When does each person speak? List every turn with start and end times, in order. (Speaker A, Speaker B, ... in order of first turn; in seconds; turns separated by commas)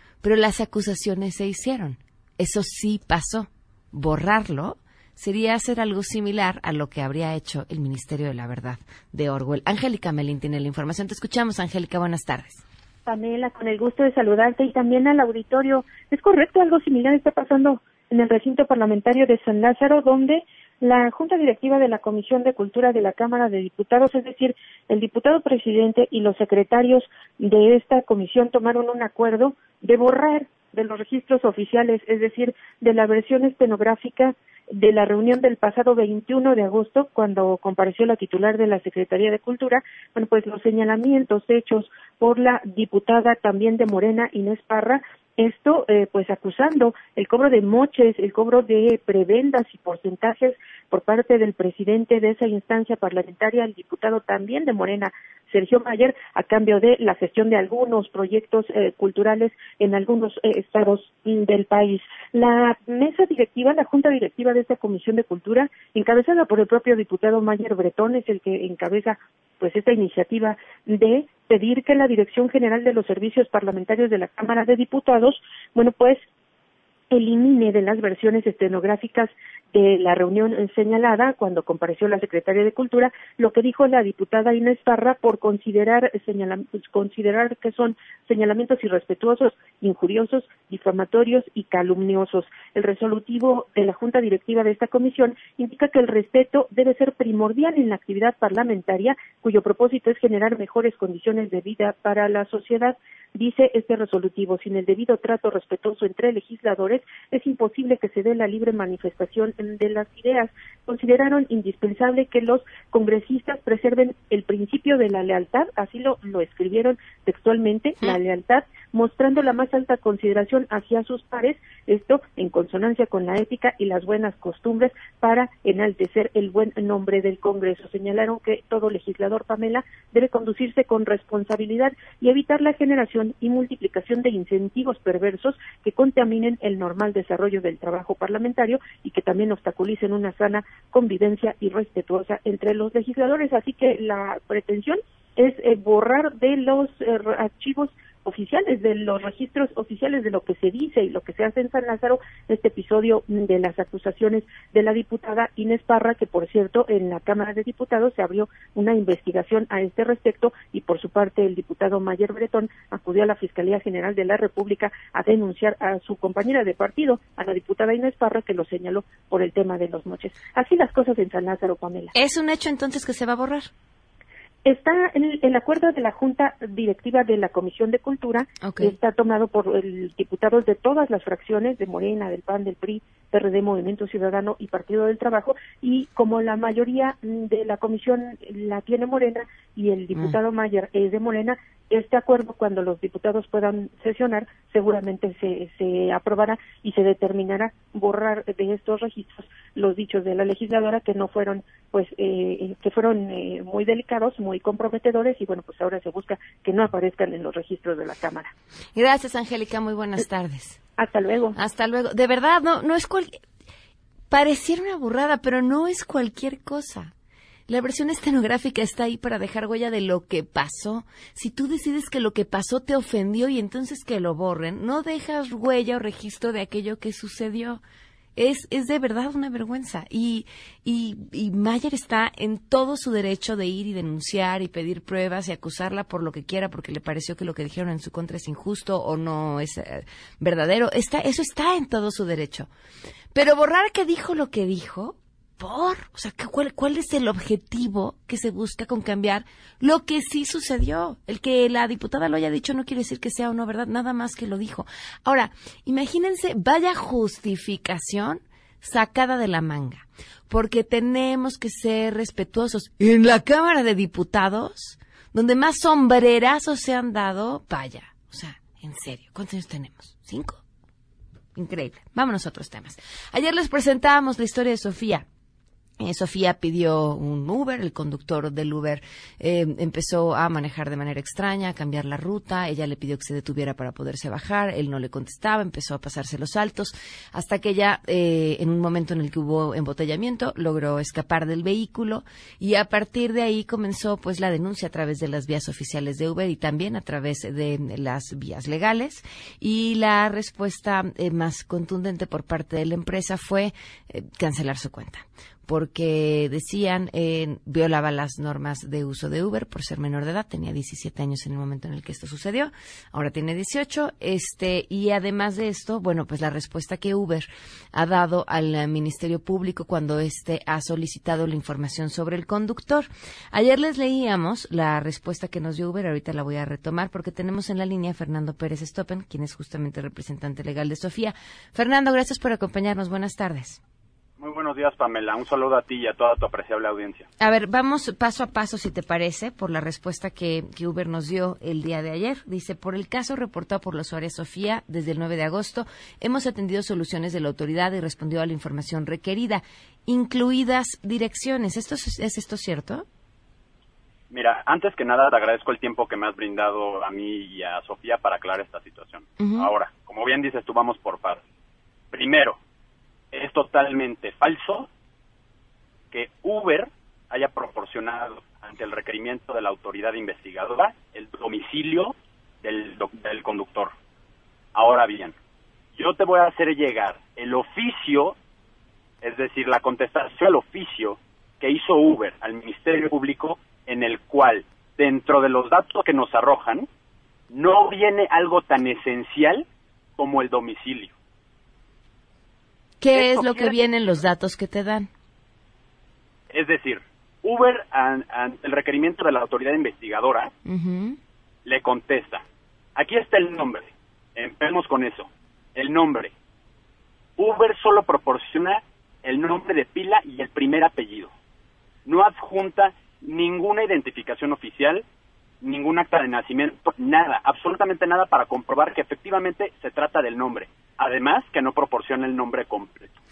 Speaker A: 0.2-12.6, Speaker B: 13.1-76.2, Speaker B: 77.1-172.1, Speaker A: 172.1-173.7, Speaker B: 174.6-208.5, Speaker A: 178.6-178.9, Speaker A: 208.9-210.8, Speaker B: 211.0-211.5, Speaker A: 211.6-213.4, Speaker A: 214.3-217.1, Speaker A: 217.7-227.8, Speaker A: 228.3-242.7, Speaker A: 243.3-270.6, Speaker A: 271.5-275.2, Speaker A: 276.0-333.8, Speaker C: 334.4-337.2, Speaker A: 337.4-353.1, Speaker C: 354.3-361.4, Speaker A: 359.4-359.7, Speaker C: 362.1-362.6, Speaker C: 363.3-364.9, Speaker C: 366.1-373.9, Speaker C: 374.7-375.3, Speaker C: 375.9-378.3, Speaker C: 379.2-386.9, Speaker C: 387.5-389.6, Speaker C: 390.2-391.1, Speaker A: 393.0-395.1, Speaker C: 393.1-393.9, Speaker C: 396.5-400.5, Speaker A: 400.6-401.2, Speaker C: 401.6-402.4, Speaker C: 402.9-406.3, Speaker C: 407.4-411.3, Speaker C: 412.1-415.0, Speaker C: 415.6-423.1